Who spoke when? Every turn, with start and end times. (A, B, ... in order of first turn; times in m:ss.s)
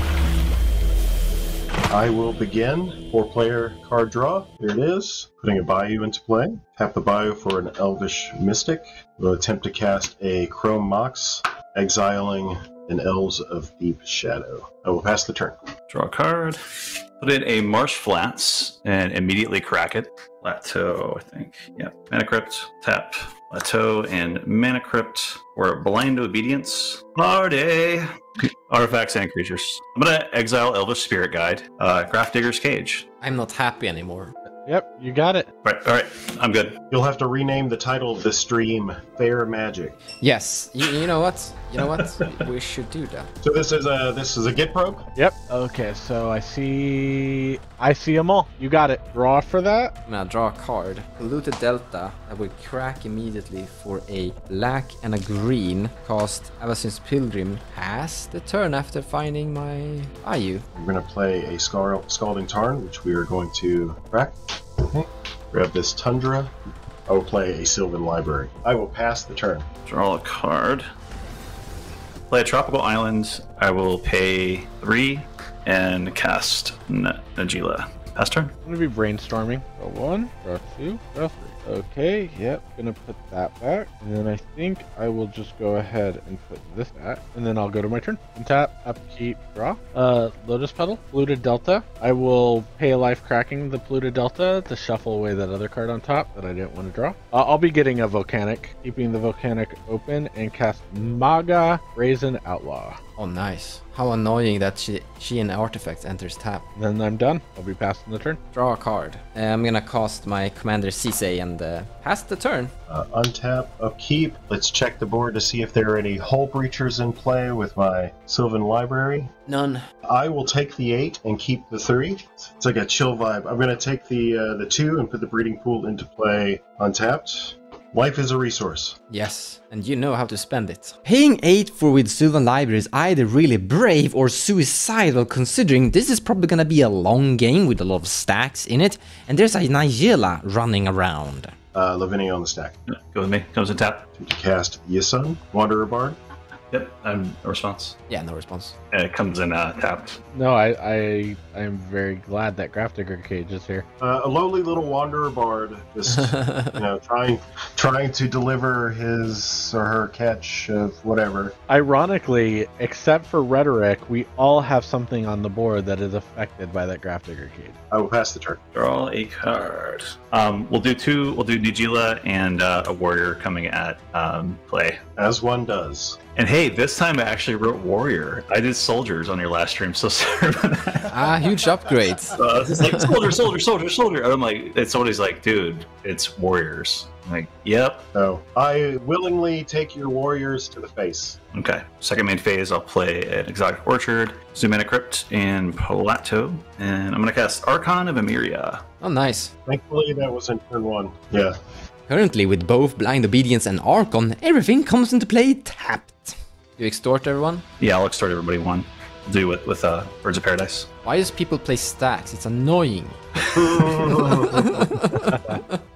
0:01.9-0:15.6 A
0:15.9-0:16.6 B
0:17.2-0:33.0 B
0:33.2-0:34.3 C
0:34.6-0:35.5 D
0:35.6-0:36.8 B
0:36.9-0:40.0 A
0:40.2-0:43.3 C
0:43.4-0:45.0 A
0:45.2-0:49.9 D
0:50.0-1:00.6 C
1:00.7-1:06.5 A
1:07.1-1:09.6 A
1:09.8-1:10.8 B
1:12.3-1:18.5 B
1:18.6-1:43.0 D
1:43.2-1:46.6 C
1:46.8-1:48.4 D
1:48.5-1:52.7 C
1:52.9-1:59.3 A
1:59.5-1:59.8 C
2:00.0-2:09.0 A
2:09.1-2:21.5 C
2:21.7-2:22.7 A
2:22.9-2:24.0 B
2:24.2-2:26.2 A
2:26.7-2:28.0 B
2:28.1-2:28.7 C
2:28.9-2:30.2 B
2:30.3-2:33.8 D
2:34.0-2:41.5 A
2:36.2-2:36.8 C
2:41.7-2:47.8 D
2:47.9-2:48.6 A
2:48.7-2:55.0 B
2:55.2-2:56.2 A
2:56.4-3:01.1 B
3:01.1-3:03.1 C
3:02.4-3:08.0 B
3:08.1-3:11.4 A
3:11.5-3:18.8 B
3:19.0-3:19.5 C
3:19.6-3:21.5 A
3:22.1-3:27.6 C
3:27.8-3:30.9 B
3:31.0-3:33.2 C
3:33.5-3:34.6 A
3:34.1-3:35.8 C